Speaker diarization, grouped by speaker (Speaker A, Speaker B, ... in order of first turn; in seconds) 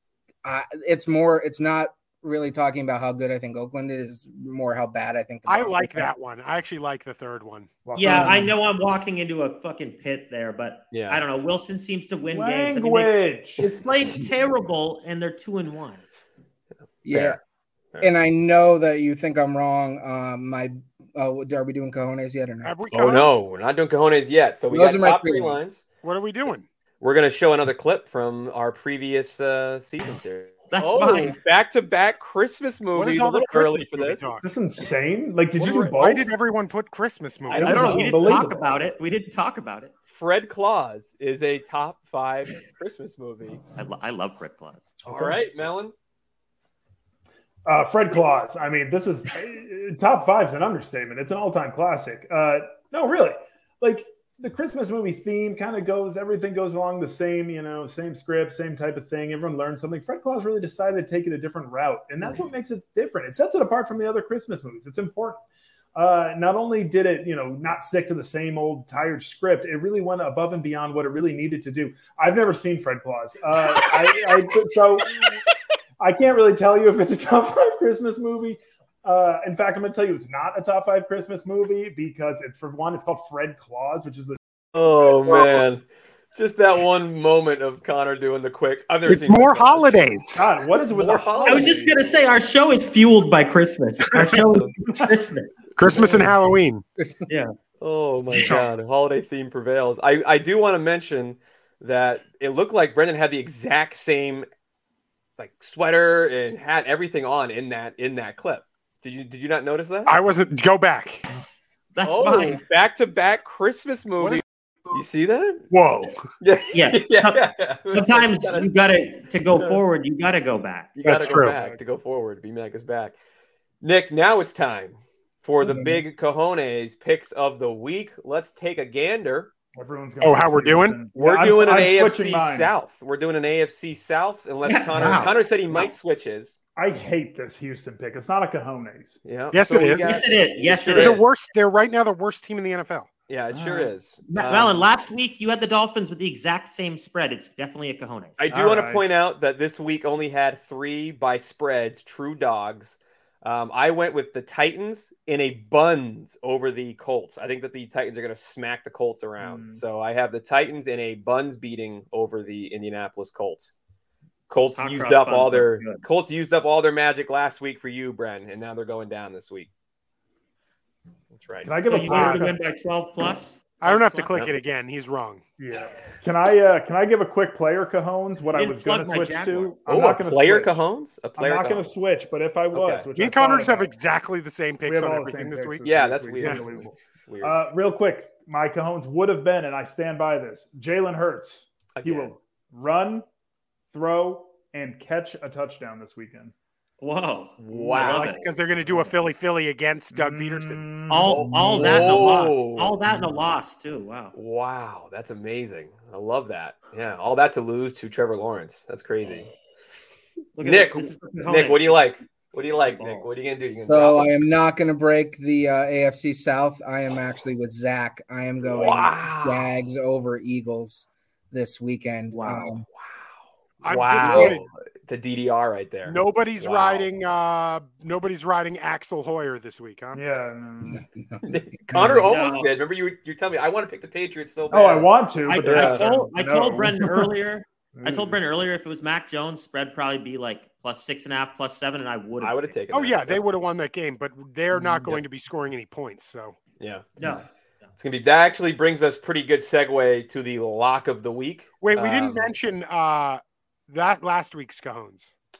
Speaker A: 0.4-6.1, 17.1-17.4, 18.0-22.8, 24.7-25.6, 97.0-97.3, 125.6-126.1, 213.9-222.9, 224.2-224.6, 230.9-232.3
Speaker B: 5.5-7.7, 22.6-23.3, 26.0-26.7, 33.0-34.5, 35.6-38.0, 89.1-90.5, 95.8-96.8, 110.1-111.3, 115.7-116.2, 121.0-121.6, 130.2-131.0, 139.5-140.2, 140.9-143.1, 172.1-172.5, 173.8-175.4, 183.2-185.8, 197.8-200.8, 223.8-224.6, 226.1-230.2, 242.9-246.6, 251.8-255.3
Speaker C: 7.8-8.5, 12.3-13.7, 34.4-36.3, 37.6-38.6, 45.0-45.4, 47.7-65.4, 66.0-75.2, 76.0-84.4, 90.4-92.0, 121.3-121.8, 129.8-132.7, 136.8-139.2, 143.5-143.9, 148.5-149.1, 159.4-159.8, 171.6-172.6, 175.6-180.8, 181.4-183.9, 184.9-193.3, 193.9-196.5, 200.1-202.3, 230.2-231.0, 234.7-237.3, 237.9-238.4, 244.7-245.1
Speaker D: 8.0-16.0, 30.7-31.4, 37.6-39.9, 43.8-44.9, 91.5-95.5, 111.3-112.6, 116.7-121.0, 134.7-135.9, 140.0-141.2, 144.3-148.4, 164.7-166.0, 171.8-174.3, 178.5-179.8, 197.0-198.4, 201.1-204.3, 210.6-212.1, 212.9-213.3, 222.3-222.7, 232.2-232.7, 235.5-242.7, 247.2-247.4
Speaker E: 10.9-11.2, 17.1-17.4, 22.9-25.8, 27.0-34.3, 35.6-36.0, 37.5-38.5, 40.1-43.6, 45.0-45.9, 84.8-90.1, 90.9-92.0, 95.9-96.3, 97.8-104.5, 105.4-110.2, 112.0-115.7, 116.4-118.7, 121.0-123.2, 123.8-129.5, 131.2-136.6, 139.2-141.3, 143.3-144.9, 148.4-163.8, 164.5-169.7, 171.3-171.8, 179.9-181.9, 182.7-183.1, 185.8-187.6, 192.0-192.3, 197.6-198.3, 201.3-203.0, 204.3-209.5, 210.6-214.3, 218.6-219.7, 223.0-223.3, 223.8-227.1, 231.4-236.1, 242.4-243.4, 246.8-247.2, 248.0-252.5